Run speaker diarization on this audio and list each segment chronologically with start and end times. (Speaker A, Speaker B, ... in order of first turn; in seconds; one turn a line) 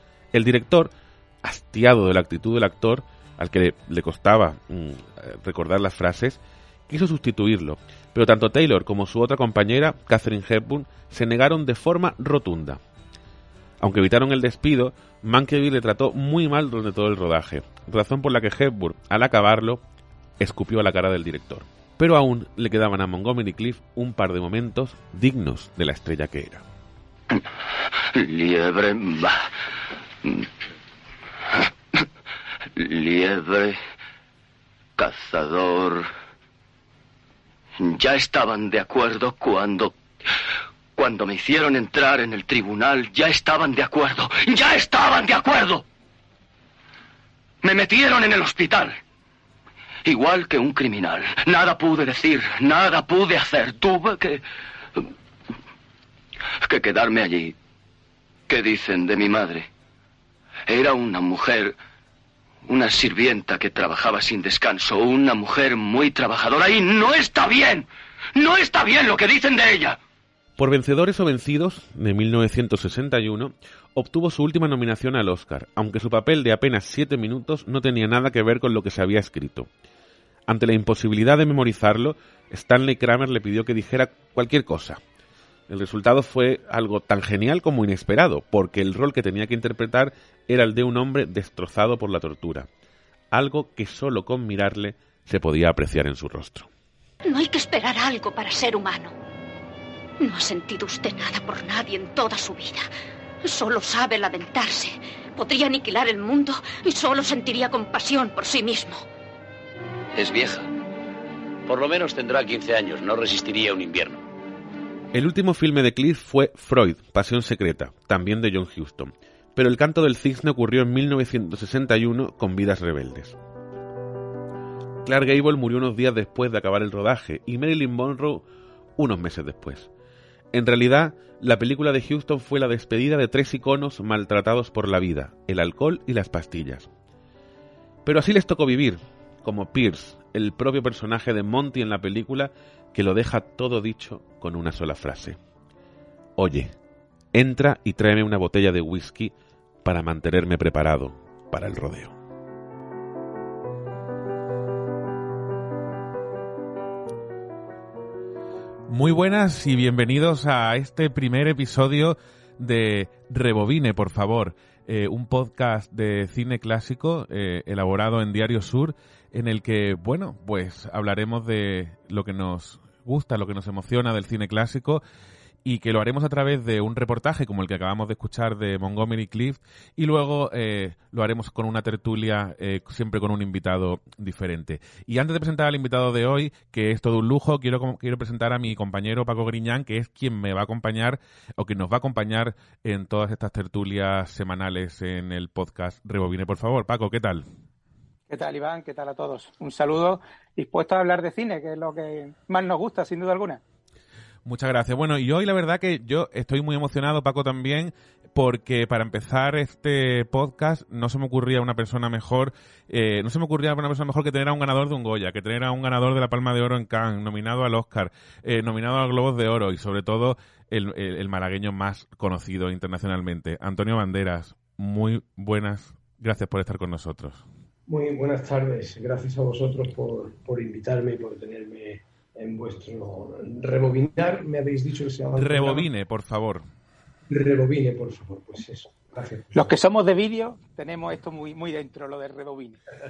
Speaker A: 0.3-12.8
Speaker A: 13.8-19.8
Speaker A: 20.4-26.6
Speaker B: 28.1-29.4
Speaker B: 32.8-33.8
Speaker B: 35.0-36.1
Speaker B: 37.8-39.9
Speaker B: 40.9-45.8
Speaker B: 47.6-49.0
Speaker B: 50.0-54.4
Speaker B: 56.6-57.5
Speaker B: 58.5-59.7
Speaker B: 60.7-61.8
Speaker B: 62.6-70.0
Speaker A: 70.6-79.7
Speaker A: 80.5-85.0
Speaker A: 85.7-92.7
Speaker A: 93.3-96.7
Speaker C: 97.2-99.2
Speaker C: 100.2-102.8
Speaker C: 103.4-109.0
Speaker B: 110.1-110.7
Speaker D: 111.7-114.2
Speaker A: 115.1-123.4
Speaker A: 125.0-128.4
Speaker A: 129.0-129.9
Speaker A: 130.5-136.9
Speaker A: 138.0-145.4
Speaker A: 146.4-146.7
Speaker A: 147.3-149.3
Speaker A: 149.8-152.1
Speaker E: 158.9-175.0
Speaker E: 175.6-197.4
Speaker F: 198.3-203.6
Speaker E: 204.4-227.4
Speaker G: 227.9-235.9
Speaker E: 235.3-236.6
Speaker G: 237.3-239.7
Speaker F: 239.5-242.8